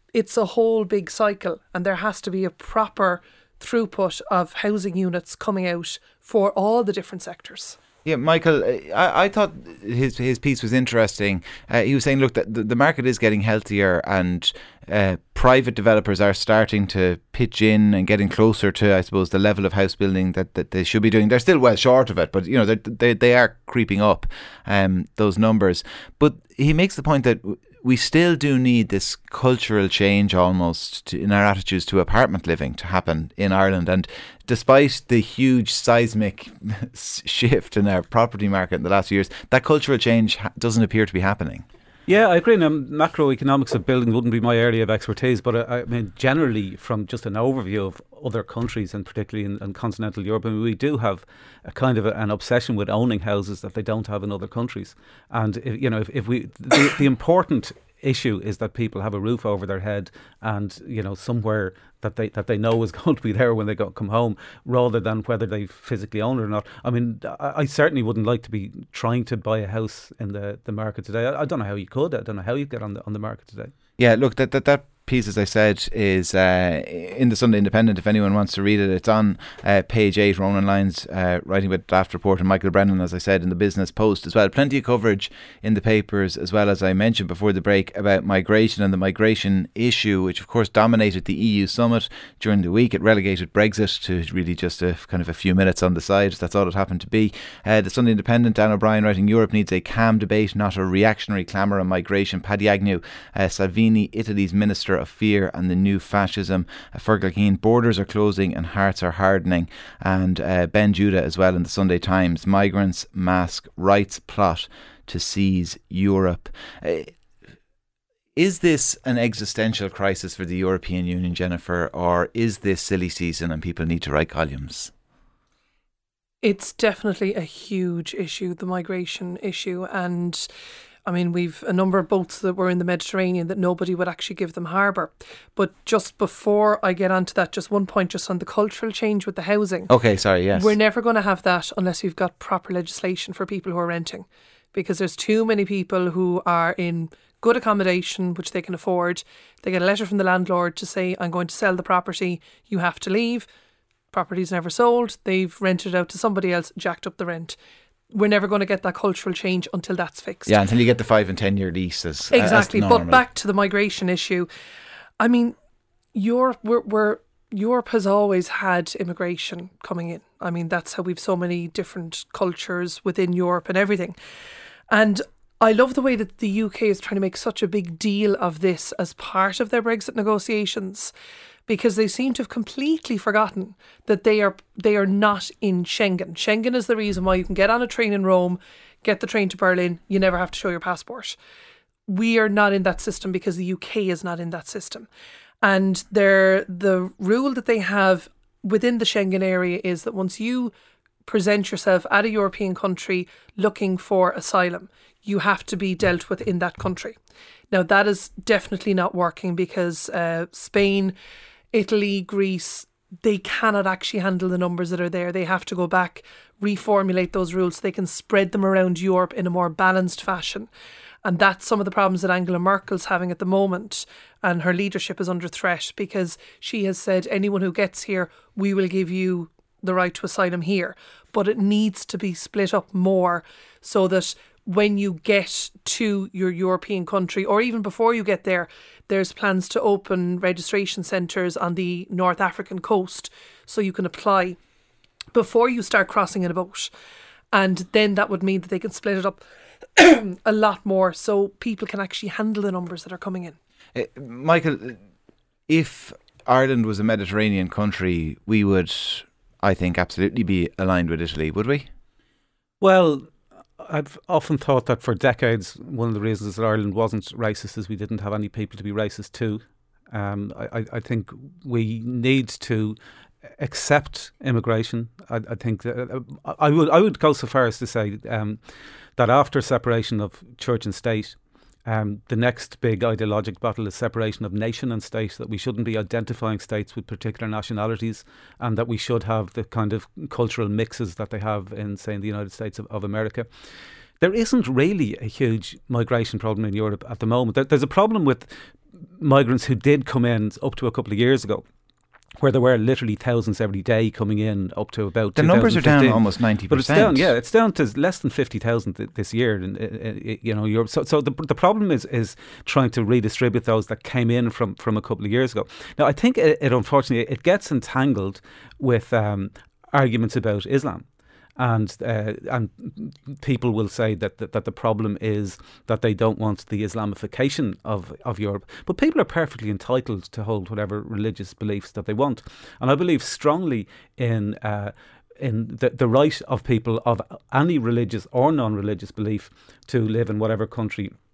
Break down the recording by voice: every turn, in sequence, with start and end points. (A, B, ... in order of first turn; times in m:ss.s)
0:00.1-0:07.8 A
0:08.0-0:41.6 B
0:42.1-1:13.7 C
1:14.0-1:57.1 B
1:58.4-2:04.9 B
2:06.4-2:10.5 A
2:11.1-2:19.9 A
2:19.9-2:20.7 B
2:20.6-2:33.5 A
2:34.1-2:37.6 A
2:38.1-2:40.5 A
2:40.4-2:43.2 B
2:42.3-2:44.5 A
2:45.2-2:45.6 A
2:46.1-2:54.1 A
2:54.9-3:01.1 A
3:01.7-3:11.4 A
3:12.1-3:15.1 A
3:15.6-3:20.7 A
3:21.3-3:27.2 A
3:27.7-3:31.1 A
3:31.7-3:40.7 A
3:41.2-4:04.6 A
4:05.3-4:06.9 A
4:07.5-4:09.4 A
4:10.0-4:13.6 A
4:14.0-4:15.0 B
4:15.7-4:21.9 B
4:22.8-4:23.3 C
4:23.8-4:33.0 C
4:33.6-4:38.6 C
4:39.2-4:53.5 C
4:54.2-4:58.5 C
4:59.2-5:01.6 C
5:02.4-5:21.0 C
5:05.4-5:07.3 B
5:21.6-5:41.1 C